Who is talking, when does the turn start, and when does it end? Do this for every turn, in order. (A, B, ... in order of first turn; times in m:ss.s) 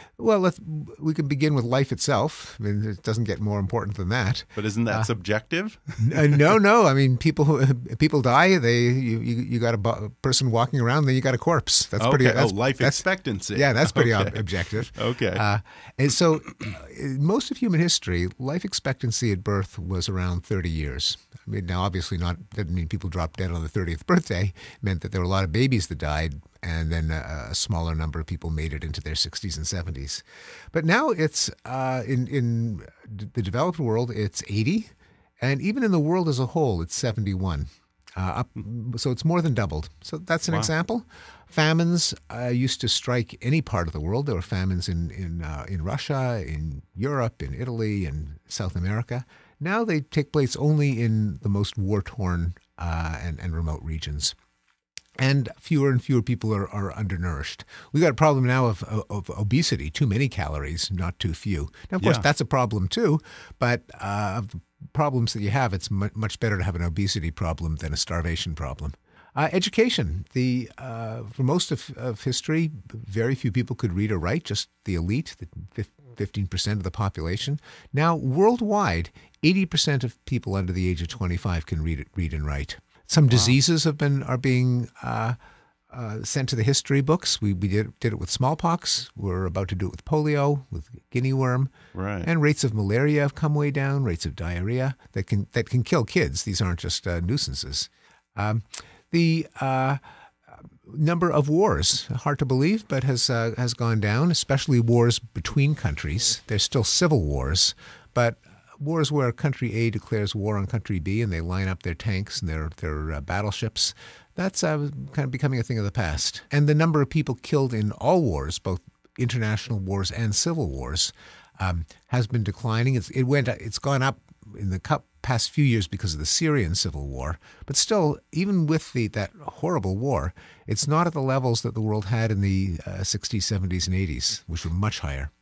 0:00.2-0:05.1 A
0:04.6-0:06.4 B
0:06.0-0:54.4 A
0:12.0-0:15.4 B
0:55.2-1:25.4 A
1:02.0-1:02.3 B
1:23.3-1:23.6 B
1:25.9-1:31.7 A
1:31.9-1:32.3 B
1:32.2-2:15.3 A